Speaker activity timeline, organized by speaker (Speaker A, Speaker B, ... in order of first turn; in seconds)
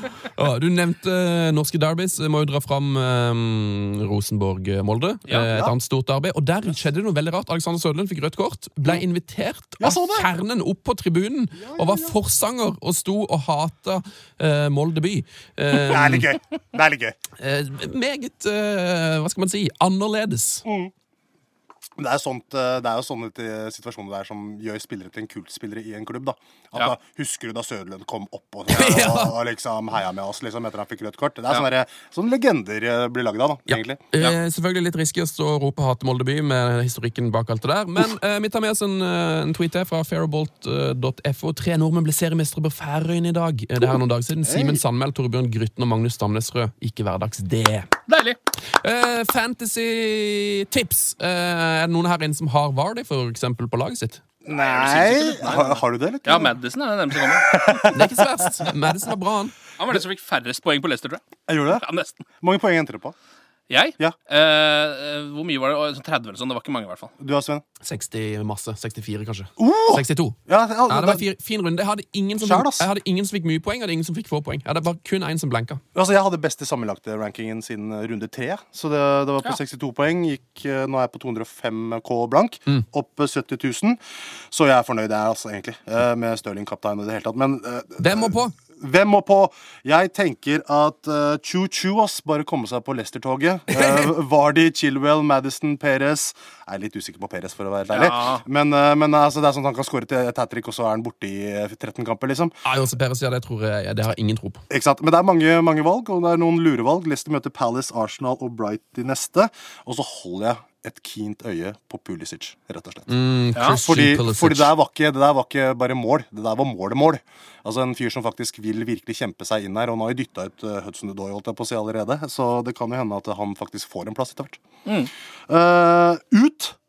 Speaker A: 0.3-16.3, 17.4-20.6, 28.7-29.4, 33.7-47.9, 48.8-54.2, 57.9-59.6, 67.8-75.8, 88.0-88.5, 102.6-104.6, 113.1-114.7
Speaker B: 5.5-5.8, 9.8-10.3, 11.6-12.2, 15.7-17.2, 20.6-20.9, 22.0-34.0, 44.4-44.8, 54.4-56.5, 57.4-58.3, 61.5-61.8, 62.4-63.1, 67.2-67.6, 69.6-71.3, 72.4-72.9, 75.9-84.0, 84.5-102.6, 104.7-113.1, 113.8-124.6, 125.5-126.8
Speaker C: 48.1-48.4, 54.5-57.9, 59.8-62.2, 63.7-67.1, 97.9-98.4, 113.5-113.8